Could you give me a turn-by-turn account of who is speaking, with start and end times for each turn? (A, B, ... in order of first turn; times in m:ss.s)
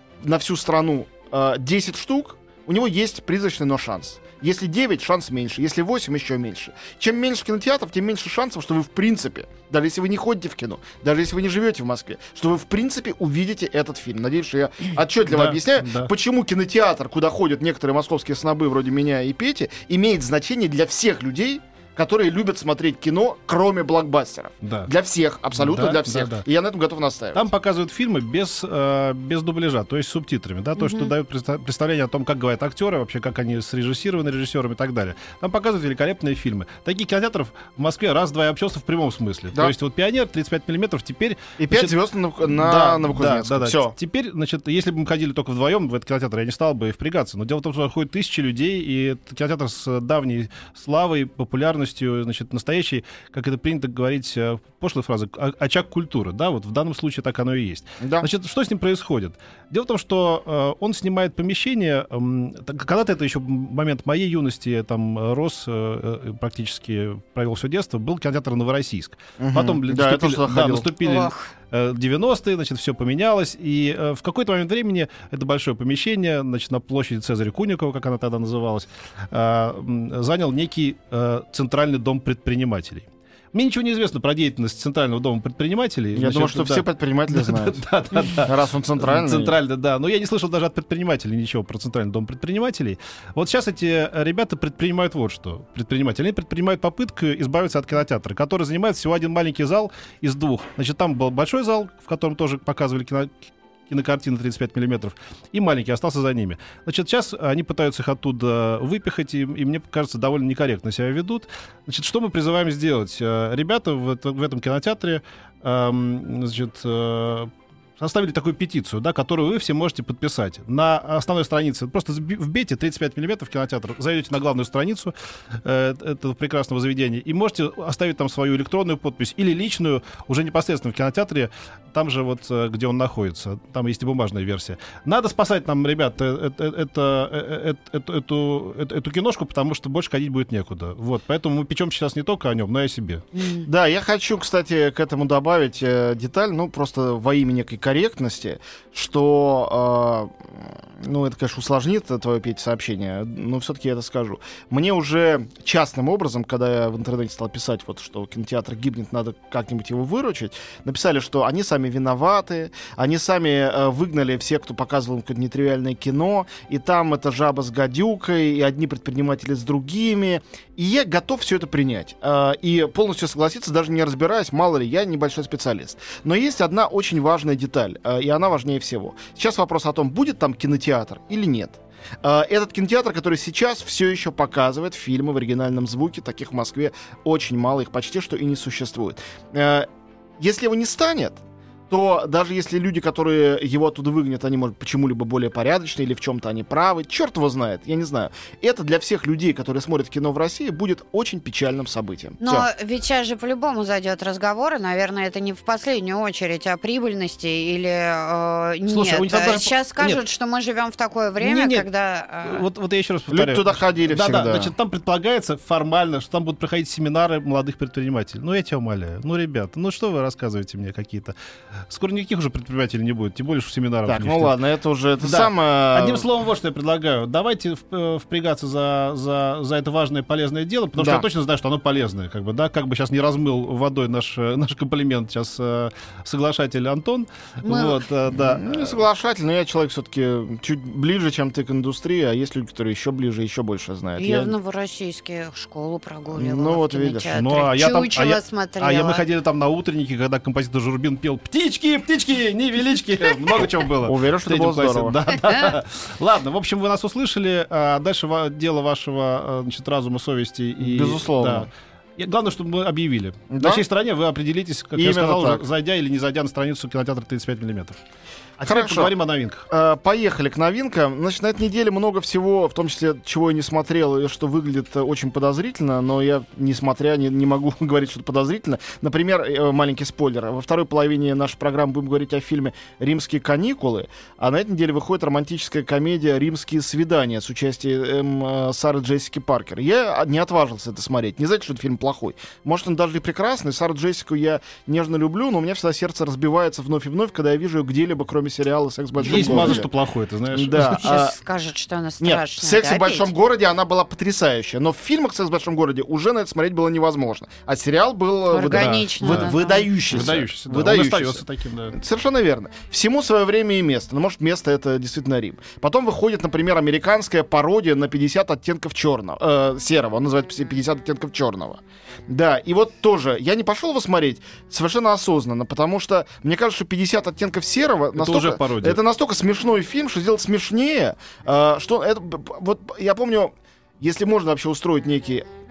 0:00.2-0:27.5 A
0:15.3-0:16.1 B
0:24.6-0:24.9 B
0:25.5-0:26.4 B
0:27.3-2:23.2 B
0:30.8-0:31.1 C
0:41.6-0:43.9 A
0:58.0-0:58.3 A
1:09.4-1:10.9 A
1:11.0-1:11.5 C
1:26.1-1:27.8 A
1:28.4-1:29.6 A
2:23.3-2:23.7 C
2:23.6-3:09.9 A
3:10.4-3:22.7 A
3:22.4-3:32.6 C
3:28.9-3:30.2 B
3:31.4-3:31.9 B
3:32.4-3:41.3 B
3:33.3-3:34.7 A
3:41.9-3:44.5 B
3:44.0-3:46.3 A
3:45.2-3:59.0 B
3:51.0-3:51.2 A
3:57.6-3:58.0 C
3:58.3-4:04.5 A
4:04.2-4:09.2 C
4:06.3-4:07.4 A
4:07.3-4:28.0 B
4:14.0-4:15.2 A
4:15.5-4:15.7 C
4:20.8-4:21.7 A
4:23.5-4:23.8 A
4:25.0-4:25.6 A
4:28.6-4:29.1 A
4:28.6-4:29.6 B
4:29.7-4:59.9 A
4:59.2-5:01.0 B
4:59.3-4:59.8 C
5:00.5-5:01.4 A
5:00.8-5:03.3 C
5:02.2-5:35.4 A
5:08.5-5:10.2 C
5:08.7-5:09.5 B
5:10.1-5:12.0 B
5:28.2-5:29.0 B